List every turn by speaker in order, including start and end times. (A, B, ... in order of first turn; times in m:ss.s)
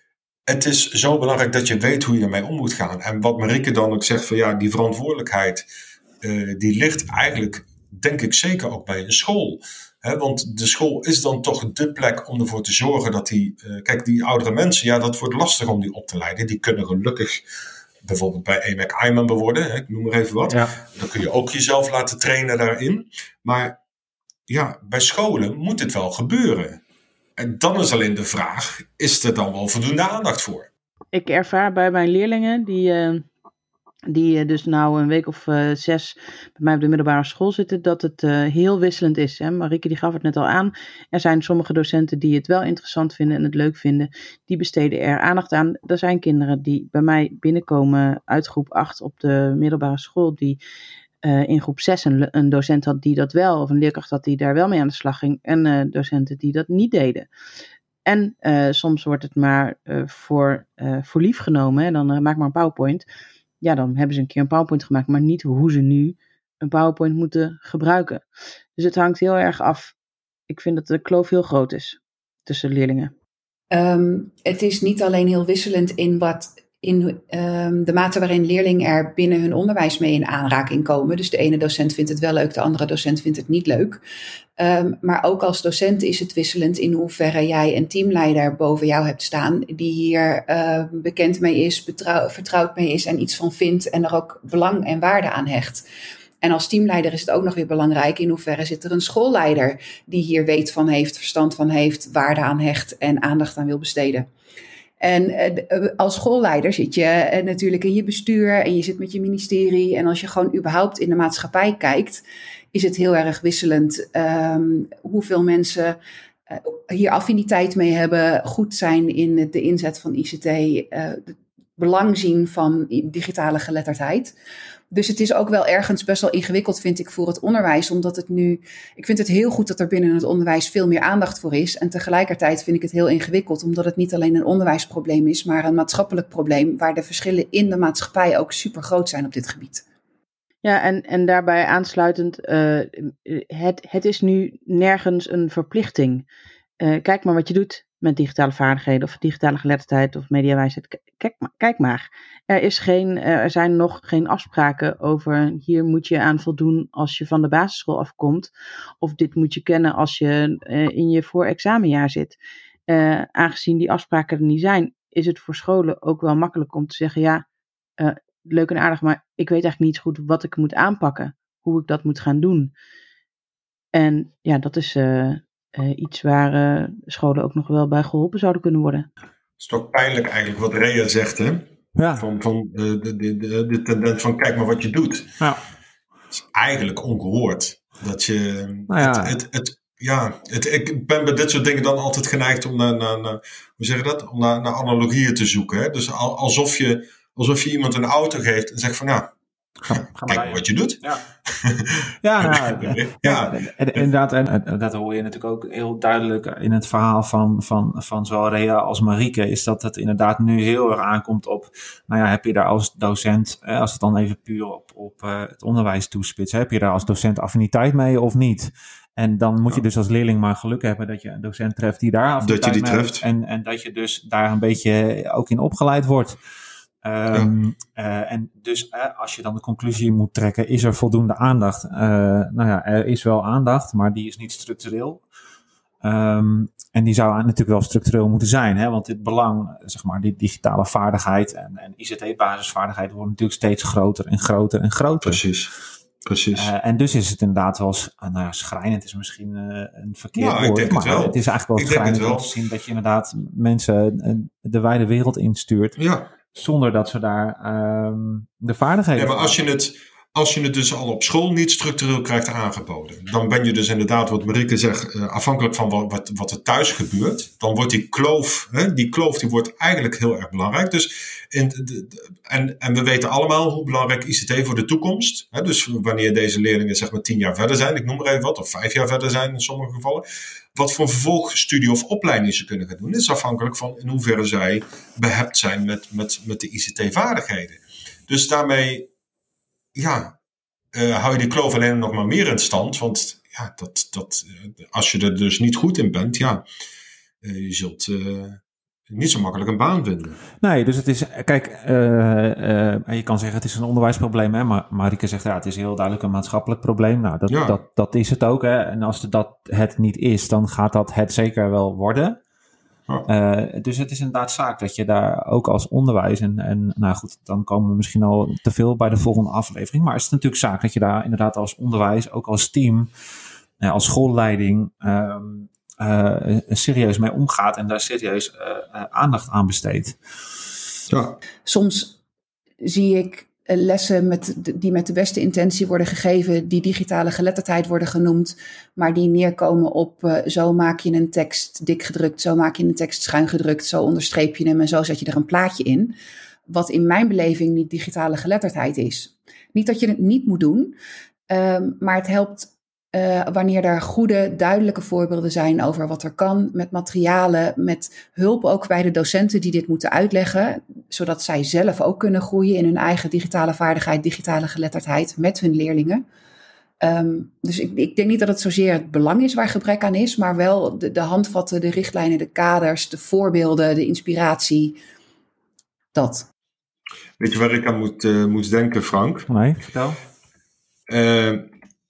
0:00.5-0:05.7 A
0:06.2-0:17.4 A
0:18.0-0:23.8 A
0:24.5-0:26.8 A
0:27.4-0:30.7 A
0:31.1-0:33.3 B
0:34.1-0:50.6 B
0:51.2-0:57.3 B
0:58.0-1:03.0 B
1:03.6-1:10.0 B
1:10.5-1:13.1 B
1:13.7-1:24.0 C
1:24.6-1:35.8 C
1:36.4-1:44.3 C
1:45.0-1:56.0 C
1:56.5-2:04.4 C
2:04.9-2:19.8 C
2:20.6-2:26.2 B
2:26.8-2:42.4 B
2:42.9-2:47.5 B
2:48.0-2:52.7 B
2:53.9-2:59.1 B
2:59.6-3:01.6 A
3:02.0-3:02.3 D
3:02.2-3:05.3 A
3:06.3-3:19.3 A
3:08.9-3:09.4 D
3:19.8-3:21.2 D
3:19.9-3:24.1 A
3:22.2-3:46.4 D
3:42.4-3:43.2 A
3:47.0-3:55.2 D
3:47.3-3:47.6 A
3:56.0-4:05.4 D
4:05.2-4:05.7 A
4:06.2-4:06.7 A
4:06.5-4:16.0 D
4:10.4-4:12.5 A
4:16.0-4:16.3 A
4:16.5-4:19.6 D
4:19.2-4:49.1 A
4:50.0-4:50.4 A
4:50.9-4:56.6 A
4:57.4-5:00.4 A
5:00.6-5:12.4 D
5:07.5-5:07.8 A
5:13.3-5:23.1 D
5:23.8-5:30.2 D
5:31.1-5:31.4 A
5:31.6-5:32.2 C
5:32.8-5:46.2 C
5:46.7-5:51.0 C
5:51.5-6:06.2 C
6:07.0-6:15.0 C
6:16.1-6:16.5 C
6:17.4-6:19.5 A
6:19.5-6:20.2 D
6:21.1-6:21.7 A